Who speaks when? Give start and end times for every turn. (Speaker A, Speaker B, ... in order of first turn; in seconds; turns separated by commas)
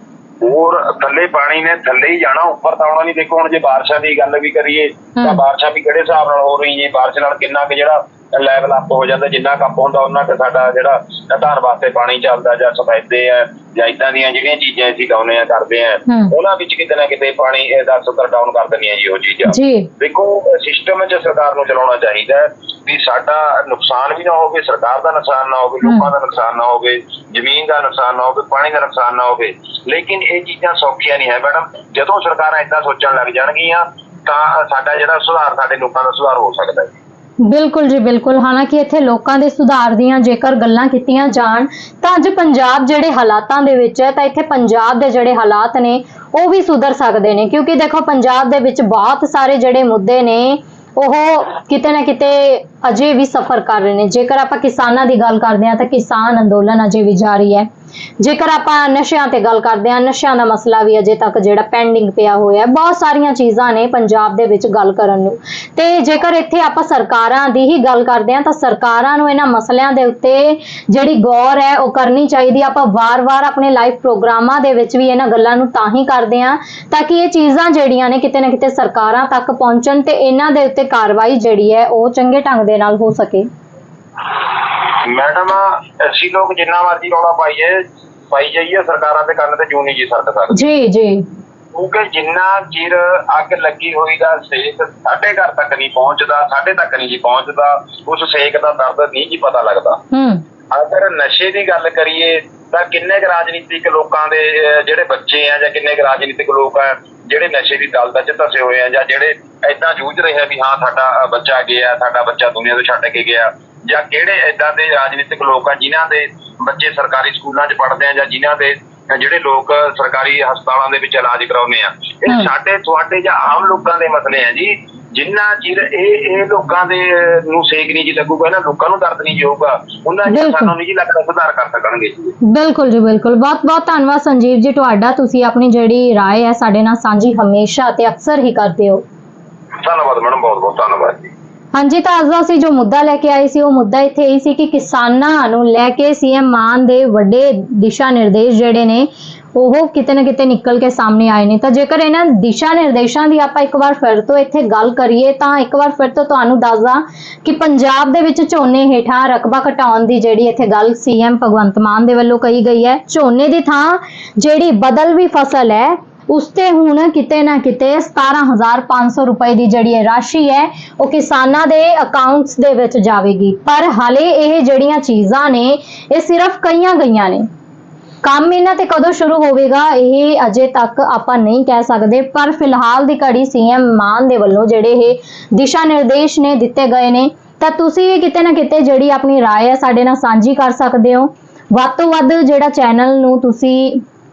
Speaker A: 0.4-36.9, Speaker B: 16.1-16.3, Speaker B: 19.5-19.9, Speaker B: 37.4-57.7, Speaker B: 58.2-83.5, Speaker A: 84.6-90.6, Speaker B: 90.5-91.2, Speaker A: 91.7-100.0, Speaker B: 100.1-100.4, Speaker A: 100.7-132.4, Speaker B: 130.3-130.7, Speaker B: 132.4-139.0, Speaker A: 139.8-141.3, Speaker B: 141.7-177.5, Speaker B: 178.2-194.0